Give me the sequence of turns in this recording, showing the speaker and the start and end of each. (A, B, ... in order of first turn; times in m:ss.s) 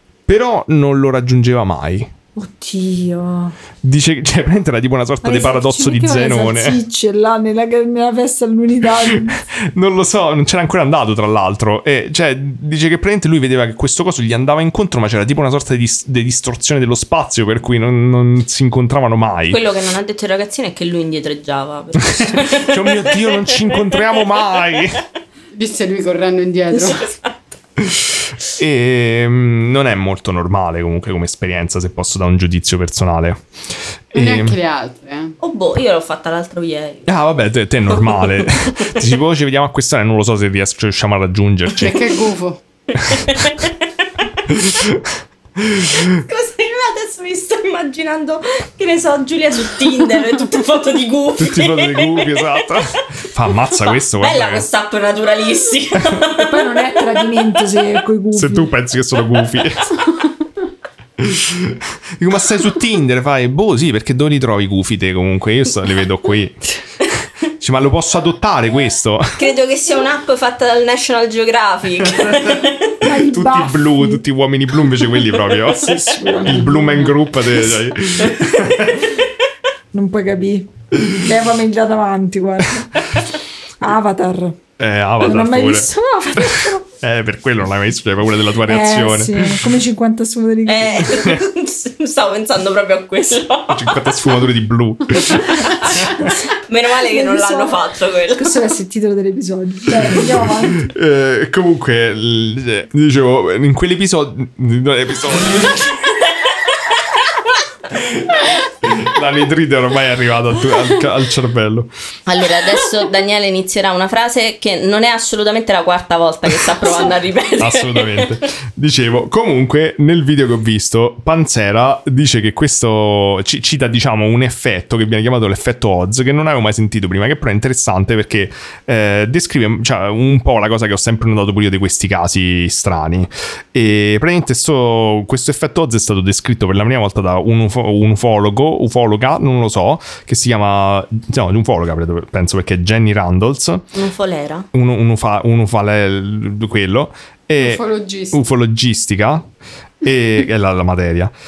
0:00.3-0:02.1 A
0:02.4-0:03.5 B
0:03.8-0:06.8 A
0:05.2-0:09.4 B
0:09.0-0:19.6 A
0:19.5-0:23.7 C
0:22.0-0:25.0 A
0:25.5-0:27.1 D
0:26.8-0:27.1 C
0:27.8-0:33.4 A
0:34.1-0:34.6 A
0:34.1-0:35.4 D
0:35.4-0:37.2 C
0:37.1-0:42.1 A
0:37.9-0:39.0 C
0:41.8-0:42.6 D
0:43.0-0:43.3 A
0:43.0-0:43.7 C
0:44.5-0:46.2 A
0:46.1-0:52.8 C
0:51.4-0:54.7 A
0:53.7-0:57.9 C
0:56.4-0:58.7 B
0:58.3-1:00.0 A
1:01.2-1:06.6 A
1:07.6-1:09.5 A
1:09.4-1:12.9 C
1:12.2-1:19.2 A
1:13.0-1:14.2 B
1:15.8-1:17.2 B
1:19.9-1:23.0 B
1:23.8-1:24.6 B
1:24.8-1:29.7 A
1:25.2-1:26.8 B
1:28.6-1:31.3 B
1:30.6-1:34.2 C
1:31.2-1:31.4 A
1:33.7-1:36.3 A
1:35.4-1:38.7 C
1:36.1-1:36.4 B
1:37.0-1:37.8 B
1:38.4-1:40.9 B
1:40.0-1:46.0 A
1:47.9-1:51.9 A
1:52.3-1:58.4 C
1:57.6-2:23.9 A
2:23.9-2:24.7 C
2:24.7-2:29.5 A
2:27.6-2:28.4 D
2:30.0-2:31.3 A